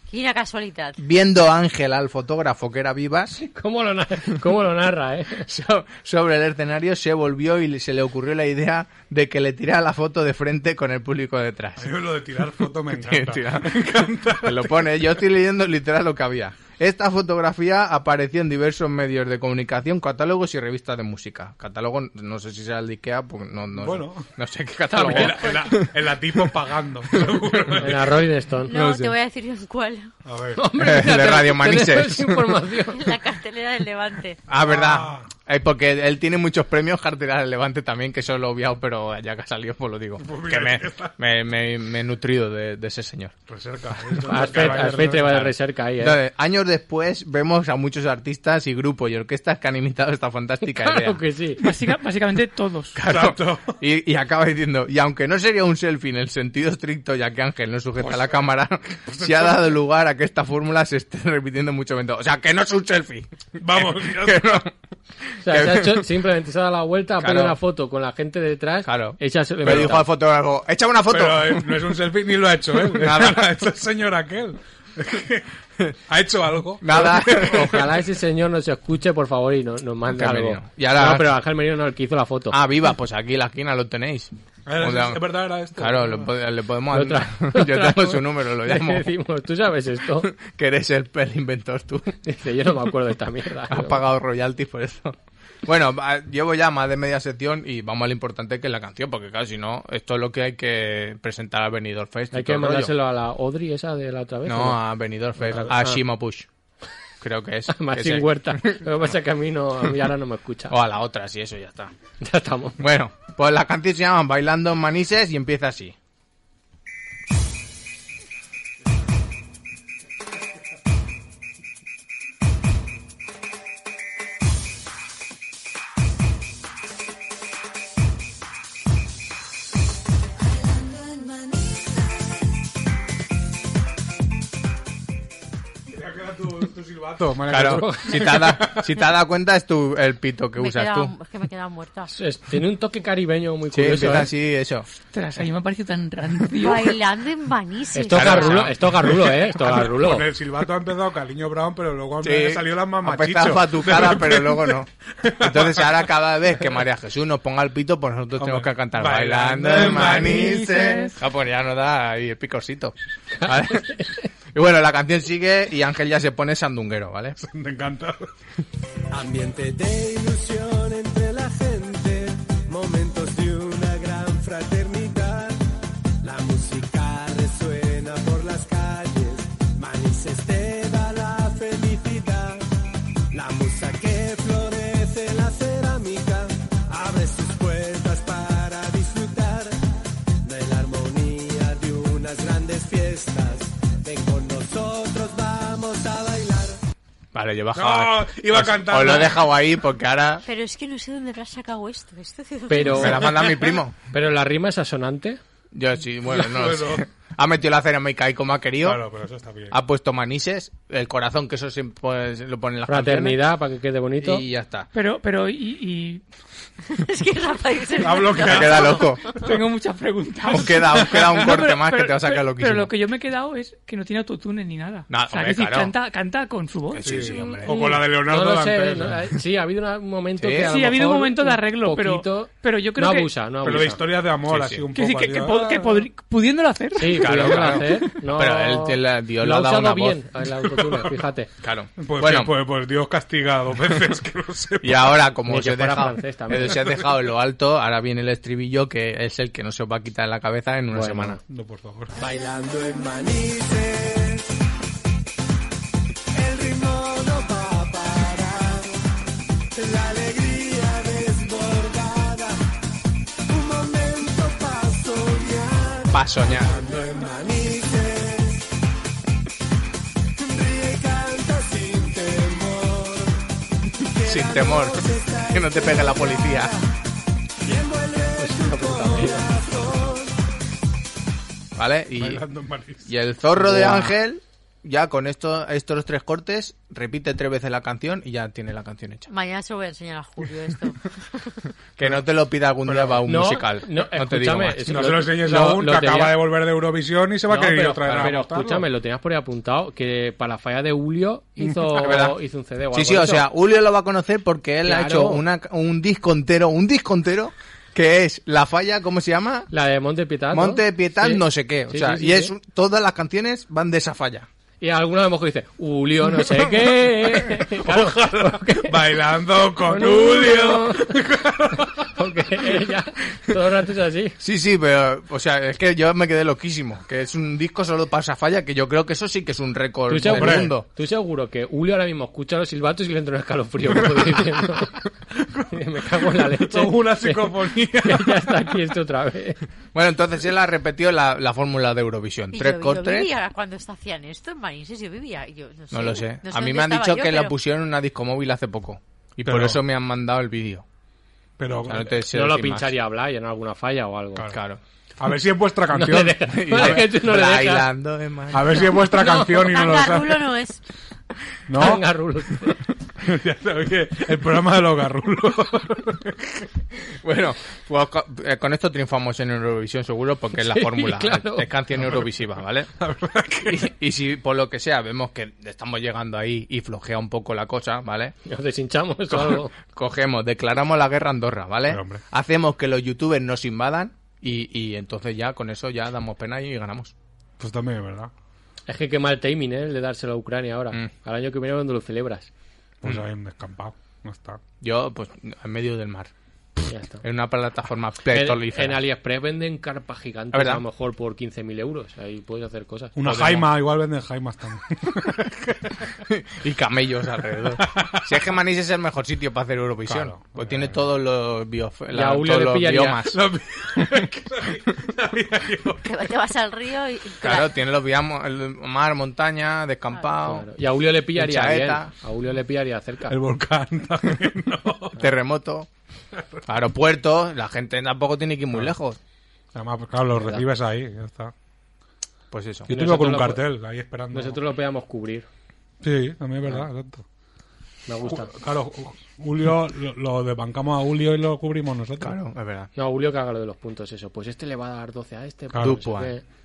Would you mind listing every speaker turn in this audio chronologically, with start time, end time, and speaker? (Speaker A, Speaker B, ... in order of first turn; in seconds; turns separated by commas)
Speaker A: 0.1-1.0, Speaker B: 1.0-3.4, Speaker C: 3.4-5.5, Speaker B: 5.4-12.0, Speaker D: 11.8-15.1, Speaker B: 12.9-25.9, Speaker D: 23.7-24.3, Speaker C: 24.9-25.5, Speaker D: 25.0-28.2, Speaker B: 27.1-27.9, Speaker C: 27.8-28.8, Speaker A: 28.7-30.1, Speaker B: 28.7-29.1, Speaker D: 30.2-30.7, Speaker C: 30.6-33.1, Speaker B: 30.8-32.6, Speaker A: 32.9-34.4, Speaker B: 34.5-43.4, Speaker D: 34.5-35.3, Speaker D: 40.2-41.2, Speaker D: 43.5-45.4, Speaker B: 43.9-51.2, Speaker C: 44.3-46.2, Speaker C: 50.7-51.7, Speaker E: 51.6-53.0, Speaker B: 53.0-64.7, Speaker D: 53.0-53.8, Speaker D: 58.0-59.8, Speaker D: 63.6-64.7, Speaker B: 65.3-66.1, Speaker C: 65.4-70.1, Speaker B: 67.2-67.6, Speaker B: 68.8-72.0, Speaker D: 69.6-70.0, Speaker D: 71.1-75.5, Speaker B: 72.8-73.5, Speaker D: 76.1-77.8, Speaker B: 76.8-77.9, Speaker C: 77.4-82.6, Speaker B: 80.1-81.4, Speaker B: 82.5-85.2, Speaker D: 84.7-86.3, Speaker B: 85.8-89.1, Speaker C: 86.9-90.3, Speaker B: 90.2-92.2, Speaker C: 92.2-94.0, Speaker B: 93.7-102.9, Speaker C: 102.3-104.8, Speaker B: 104.5-106.5, Speaker C: 105.4-106.0, Speaker B: 107.2-108.9, Speaker C: 107.7-110.8, Speaker B: 110.7-111.9, Speaker C: 112.2-112.8, Speaker B: 112.8-116.0, Speaker D: 135.9-139.0, Speaker B: 137.5-141.1, Speaker C: 137.6-138.3, Speaker A: 140.6-142.2, Speaker C: 142.1-144.3, Speaker B: 143.7-144.9, Speaker E: 145.1-147.0, Speaker A: 146.6-148.7, Speaker C: 147.9-150.3, Speaker B: 148.1-149.2, Speaker D: 149.6-156.1, Speaker B: 152.2-154.9, Speaker B: 155.4-167.4, Speaker D: 158.4-160.8, Speaker E: 159.9-161.2, Speaker C: 163.4-164.2, Speaker D: 167.4-168.3, Speaker F: 169.1-175.6, Speaker F: 176.2-182.7, Speaker F: 183.3-189.8, Speaker F: 190.4-196.8, Speaker B: 197.3-200.4, Speaker D: 197.7-199.5, Speaker A: 200.4-203.4, Speaker C: 202.7-203.3, Speaker B: 202.9-203.9, Speaker C: 204.1-205.4, Speaker B: 205.7-209.0, Speaker D: 206.3-207.1, Speaker D: 208.8-209.8, Speaker B: 209.7-213.4, Speaker C: 212.9-214.4, Speaker B: 214.2-214.9, Speaker E: 214.9-216.2, Speaker A: 216.9-219.4, Speaker D: 218.0-219.2, Speaker B: 218.4-219.2, Speaker E: 219.3-227.9, Speaker B: 220.5-222.9, Speaker B: 225.1-225.9, Speaker B: 226.9-228.0, Speaker D: 227.0-229.2, Speaker C: 227.7-234.0, Speaker B: 230.4-230.7, Speaker E: 230.6-233.3, Speaker D: 233.6-236.1, Speaker B: 234.5-234.9, Speaker E: 234.9-237.8, Speaker C: 237.0-241.5, Speaker B: 237.2-240.2, Speaker D: 240.6-241.2, Speaker B: 241.6-242.5, Speaker D: 242.0-245.2, Speaker B: 244.8-251.4, Speaker C: 245.5-246.9, Speaker D: 246.7-247.1, Speaker C: 250.9-251.4, Speaker D: 251.5-252.2, Speaker F: 252.2-254.5, Speaker F: 256.3-258.9, Speaker F: 259.8-262.6, Speaker F: 263.5-268.7, Speaker B: 266.1-266.8, Speaker F: 270.4-273.5, Speaker F: 274.1-276.8, Speaker B: 274.2-276.8, Speaker F: 277.6-280.4, Speaker C: 278.4-279.5, Speaker B: 281.8-282.4, Speaker D: 282.2-283.1, Speaker B: 283.1-289.3, Speaker C: 283.6-284.1, Speaker A: 289.3-291.6, Speaker B: 292.0-295.2, Speaker D: 292.9-293.3, Speaker C: 293.2-296.4, Speaker D: 294.9-298.9, Speaker C: 297.5-303.5, Speaker B: 298.1-298.3, Speaker B: 301.9-302.4, Speaker B: 302.9-309.7, Speaker C: 304.8-305.4, Speaker C: 309.7-312.5, Speaker B: 310.5-314.5, Speaker C: 314.8-319.0, Speaker D: 317.5-322.5, Speaker C: 319.9-321.2, Speaker C: 321.9-324.4, Speaker B: 324.4-330.9, Speaker C: 330.1-335.0, Speaker D: 330.2-330.7, Speaker D: 333.9-338.8, Speaker C: 335.7-339.6, Speaker B: 339.9-343.3, Speaker A: 342.5-347.6, Speaker B: 345.9-350.9, Speaker D: 349.4-349.8, Speaker D: 351.6-352.2, Speaker B: 351.9-352.9, Speaker C: 352.3-354.5, Speaker B: 354.5-354.8, Speaker D: 355.2-357.0, Speaker C: 355.9-357.9, Speaker B: 356.1-359.0, Speaker D: 358.5-360.5, Speaker A: 359.0-360.8, Speaker D: 361.7-362.1, Speaker C: 361.8-362.8, Speaker D: 363.2-366.6, Speaker B: 367.2-372.9, Speaker C: 370.6-371.7, Speaker D: 373.0-373.9, Speaker B: 373.7-378.4, Speaker C: 378.5-379.7, Speaker B: 379.3-387.1, Speaker D: 381.9-382.2, Speaker D: 387.6-388.3, Speaker C: 388.9-392.5, Speaker D: 393.0-394.6, Speaker B: 394.8-396.3, Speaker C: 396.9-397.2, Speaker B: 397.2-399.0, Speaker C: 398.3-403.2, Speaker B: 400.5-400.8, Speaker D: 403.2-405.9, Speaker B: 403.2-403.7, Speaker B: 406.3-413.4, Speaker D: 407.7-408.4, Speaker D: 410.1-411.0, Speaker C: 412.1-413.2, Speaker D: 413.2-416.2, Speaker A: 416.0-417.7, Speaker B: 417.4-420.7, Speaker C: 420.4-423.4, Speaker B: 421.4-422.1, Speaker D: 423.3-425.2, Speaker B: 425.2-425.9, Speaker D: 426.3-426.6, Speaker B: 426.7-429.2, Speaker D: 429.7-431.5, Speaker C: 430.4-430.6, Speaker B: 432.5-432.9, Speaker C: 432.9-433.7, Speaker D: 432.9-434.6, Speaker C: 434.3-435.5, Speaker D: 436.0-437.2, Speaker C: 438.1-438.5, Speaker D: 438.2-442.4, Speaker B: 442.2-442.9, Speaker C: 443.0-446.4, Speaker D: 445.7-446.1, Speaker B: 445.8-446.3